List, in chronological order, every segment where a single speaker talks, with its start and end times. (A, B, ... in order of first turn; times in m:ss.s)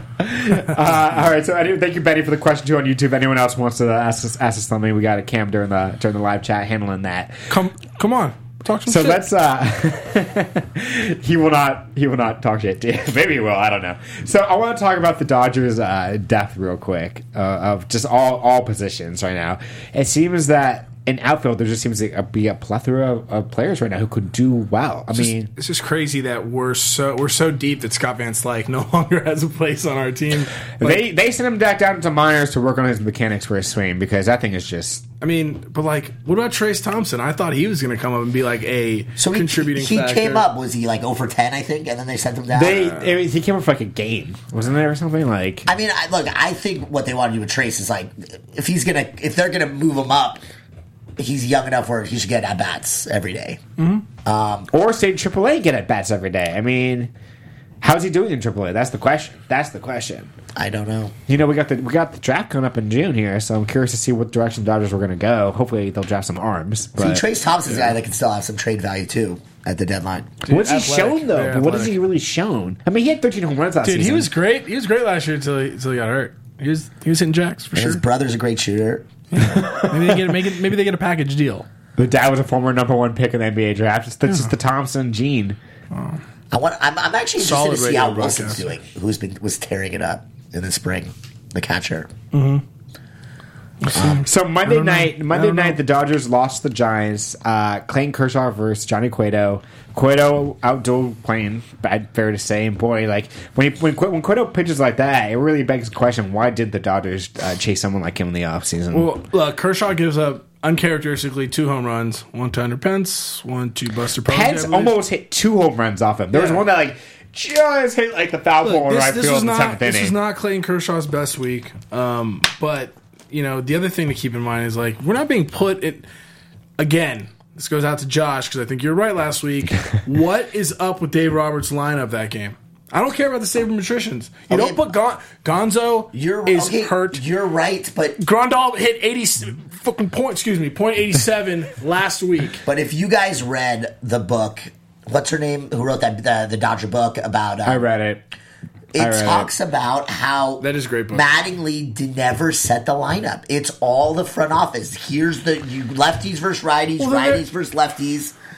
0:00.2-0:07.5 A
0:07.5-0:09.2 B
0:08.8-0:25.5 A
0:25.2-0:31.0 B
0:30.8-0:35.0 A
0:35.2-0:40.4 B
0:39.2-0:43.0 C
0:42.5-0:45.7 A
0:45.6-0:50.4 C
0:51.2-0:53.6 C
0:53.8-0:54.0 B
0:54.2-0:54.7 C
0:54.7-0:57.1 A
0:57.8-1:00.3 A
1:00.5-1:01.1 C
1:01.3-1:07.2 A
1:07.0-1:10.3 C
1:07.7-1:07.9 B
1:10.5-1:12.0 B
1:10.5-1:14.3 A
1:13.8-1:18.0 B
1:17.7-1:19.1 C
1:19.4-1:21.6 B
1:19.6-1:20.2 A
1:22.0-1:25.6 A
1:25.9-1:26.2 B
1:26.5-1:32.1 C
1:27.4-1:28.6 B
1:32.3-1:32.6 B
1:33.8-1:35.8 B
1:33.9-1:34.2 C
1:34.0-1:49.1 A
1:48.9-1:55.0 B
1:54.2-2:00.2 A
1:56.3-1:56.6 B
1:58.6-2:06.0 B
2:06.8-2:17.2 B
2:14.5-2:14.8 C
2:16.1-2:18.2 C
2:18.2-2:22.6 B
2:22.6-2:27.8 C
2:27.6-2:28.2 A
2:28.9-2:38.3 C
2:29.0-2:29.5 A
2:30.6-2:31.2 B
2:37.0-2:37.4 B